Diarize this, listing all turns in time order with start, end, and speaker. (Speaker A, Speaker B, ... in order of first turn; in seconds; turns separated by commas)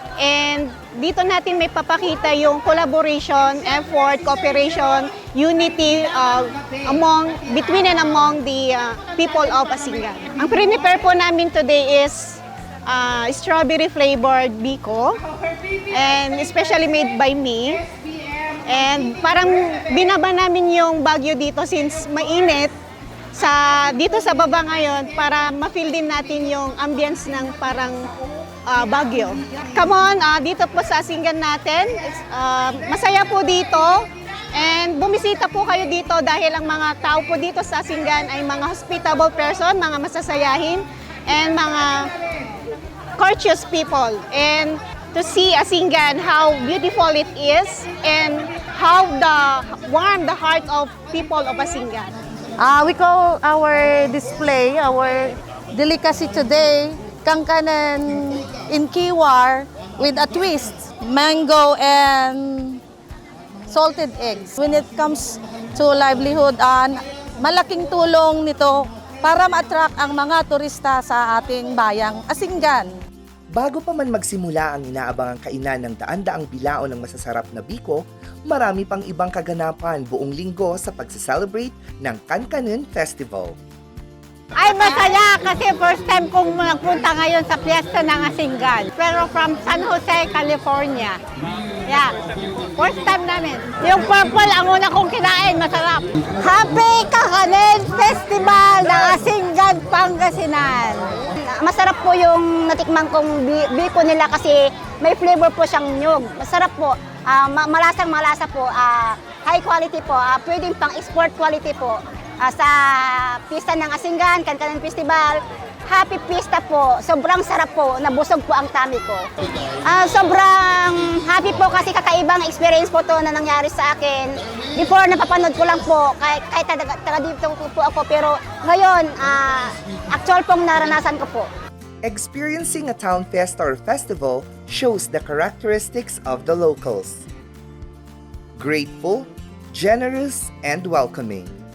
Speaker A: 0.2-15.2, Speaker A: 15.9-17.8, Speaker A: 18.6-22.7, Speaker A: 23.3-28.1, Speaker A: 28.6-42.1, Speaker A: 43.2-52.1, Speaker B: 52.6-62.8, Speaker B: 63.7-72.9, Speaker C: 73.5-83.6, Speaker D: 84.5-91.2, Speaker E: 88.7-89.0, Speaker D: 92.8-101.1, Speaker E: 94.1-94.4, Speaker E: 98.7-99.3, Speaker E: 101.4-119.3, Speaker E: 119.8-131.5, Speaker C: 132.0-137.3, Speaker C: 138.6-141.5